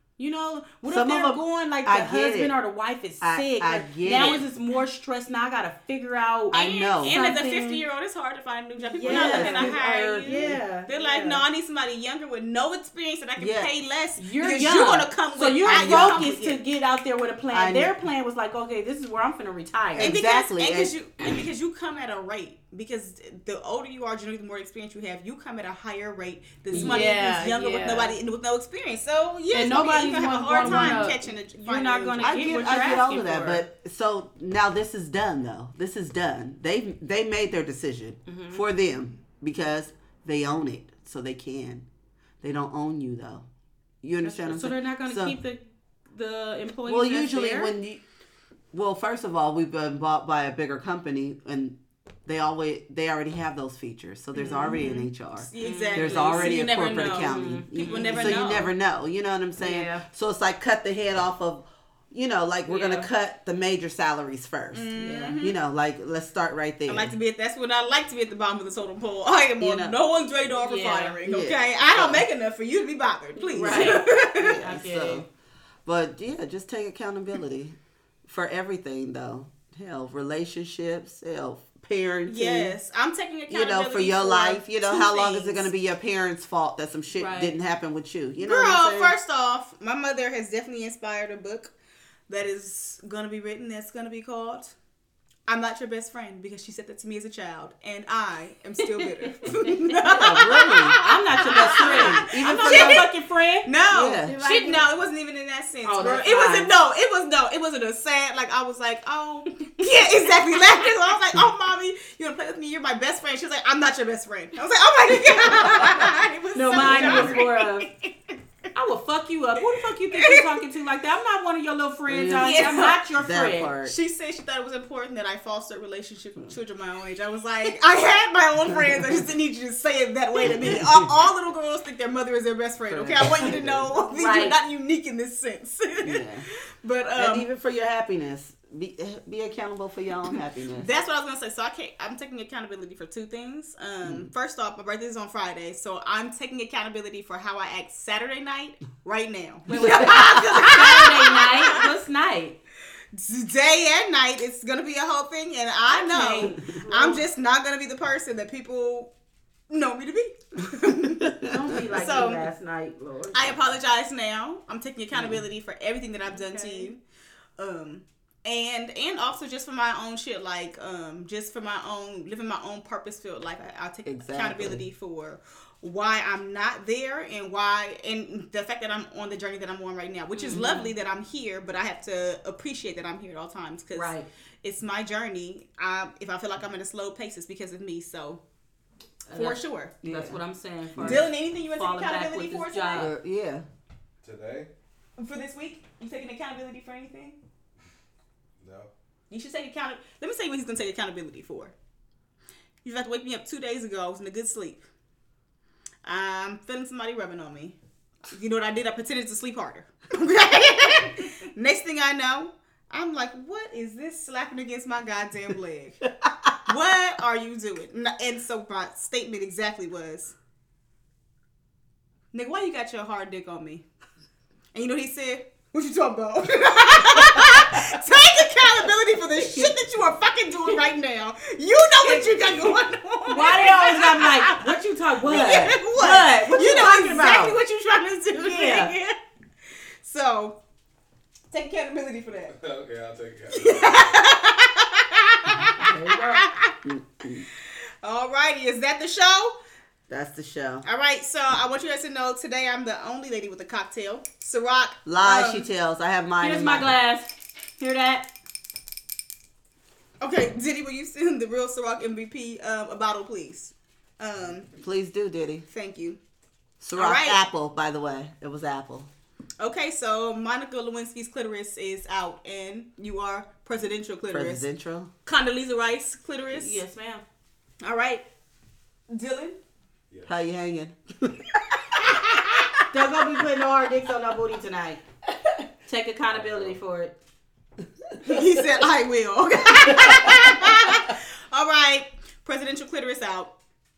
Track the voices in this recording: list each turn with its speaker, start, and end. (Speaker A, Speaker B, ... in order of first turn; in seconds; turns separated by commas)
Speaker A: 0.2-7.8, Speaker B: 0.8-2.5, Speaker B: 3.2-4.5, Speaker C: 4.0-4.5, Speaker B: 6.5-7.2, Speaker C: 6.5-16.6, Speaker A: 8.8-11.4, Speaker B: 9.0-10.6, Speaker B: 13.4-13.7, Speaker A: 14.2-20.1, Speaker B: 15.7-16.3, Speaker B: 17.5-17.9, Speaker B: 20.0-20.9, Speaker C: 20.0-33.0, Speaker B: 26.7-27.1, Speaker A: 26.7-28.1, Speaker A: 29.5-33.6, Speaker B: 30.6-31.1, Speaker B: 32.2-41.8, Speaker A: 38.2-38.6, Speaker B: 42.4-43.5, Speaker B: 44.0-45.4, Speaker A: 44.2-47.7, Speaker B: 46.9-48.0, Speaker B: 48.7-67.1, Speaker A: 54.4-54.8, Speaker C: 54.4-58.7, Speaker A: 55.6-58.5, Speaker A: 59.6-60.0, Speaker A: 62.7-63.1, Speaker C: 64.7-65.6, Speaker A: 65.0-65.3, Speaker C: 66.9-74.6, Speaker B: 69.6-69.9, Speaker A: 70.6-71.2, Speaker B: 71.2-72.2, Speaker A: 73.4-75.2, Speaker B: 73.6-75.2, Speaker B: 75.8-82.7, Speaker C: 82.2-85.7, Speaker B: 83.5-89.1, Speaker A: 87.1-87.5, Speaker C: 88.4-91.7, Speaker C: 92.3-94.7, Speaker C: 95.5-103.1, Speaker A: 99.5-100.4, Speaker B: 100.1-103.0, Speaker A: 101.0-103.7, Speaker C: 103.6-118.3, Speaker B: 103.9-104.4, Speaker A: 104.2-104.8, Speaker A: 105.8-106.7, Speaker A: 115.5-117.9, Speaker B: 116.8-117.4, Speaker A: 118.7-123.7, Speaker C: 120.1-120.6, Speaker B: 122.1-123.9, Speaker C: 122.3-123.0, Speaker C: 123.8-137.4, Speaker B: 130.5-130.9, Speaker B: 132.9-133.8, Speaker A: 134.1-134.6, Speaker B: 136.0-136.4, Speaker B: 137.2-140.9, Speaker C: 140.8-151.9, Speaker B: 144.0-144.3, Speaker A: 149.7-152.6, Speaker B: 149.7-150.4, Speaker C: 153.1-159.1, Speaker A: 155.9-157.2, Speaker C: 159.7-162.5, Speaker B: 161.2-161.6, Speaker A: 161.4-163.5, Speaker C: 163.3-167.0, Speaker B: 165.1-165.4, Speaker A: 166.3-166.9, Speaker C: 167.6-188.4, Speaker B: 174.0-174.8, Speaker A: 180.3-180.9, Speaker A: 183.9-184.3, Speaker A: 189.3-193.1, Speaker C: 189.3-189.9, Speaker B: 190.0-190.4, Speaker B: 190.9-191.2, Speaker C: 191.0-193.1, Speaker B: 192.9-193.6, Speaker D: 194.2-194.7, Speaker C: 195.2-197.4, Speaker D: 198.6-198.9, Speaker C: 199.3-201.7, Speaker C: 202.8-204.8, Speaker C: 206.0-207.8, Speaker C: 208.3-216.0, Speaker B: 216.2-216.5, Speaker C: 216.7-220.3, Speaker C: 222.3-223.8, Speaker C: 224.7-239.2, Speaker A: 233.3-237.6, Speaker A: 238.3-238.9, Speaker C: 240.0-240.6, Speaker C: 241.5-242.5, Speaker D: 242.5-244.1, Speaker C: 243.5-246.7, Speaker A: 245.8-246.4, Speaker B: 246.8-247.5, Speaker C: 248.0-249.6, Speaker B: 250.1-250.8, Speaker C: 250.8-255.7, Speaker B: 255.1-256.9, Speaker A: 256.4-258.3, Speaker C: 260.2-264.7, Speaker B: 264.8-265.6, Speaker C: 265.7-266.2, Speaker B: 266.8-269.1, Speaker C: 266.9-267.4, Speaker C: 269.6-274.6, Speaker B: 274.3-275.1, Speaker C: 275.2-276.8, Speaker A: 276.5-277.2, Speaker C: 277.8-278.2, Speaker C: 279.1-279.6, Speaker B: 280.3-281.6, Speaker C: 282.1-282.4, Speaker A: 282.9-285.0, Speaker A: 285.9-287.1, Speaker D: 286.3-286.8, Speaker C: 288.2-293.5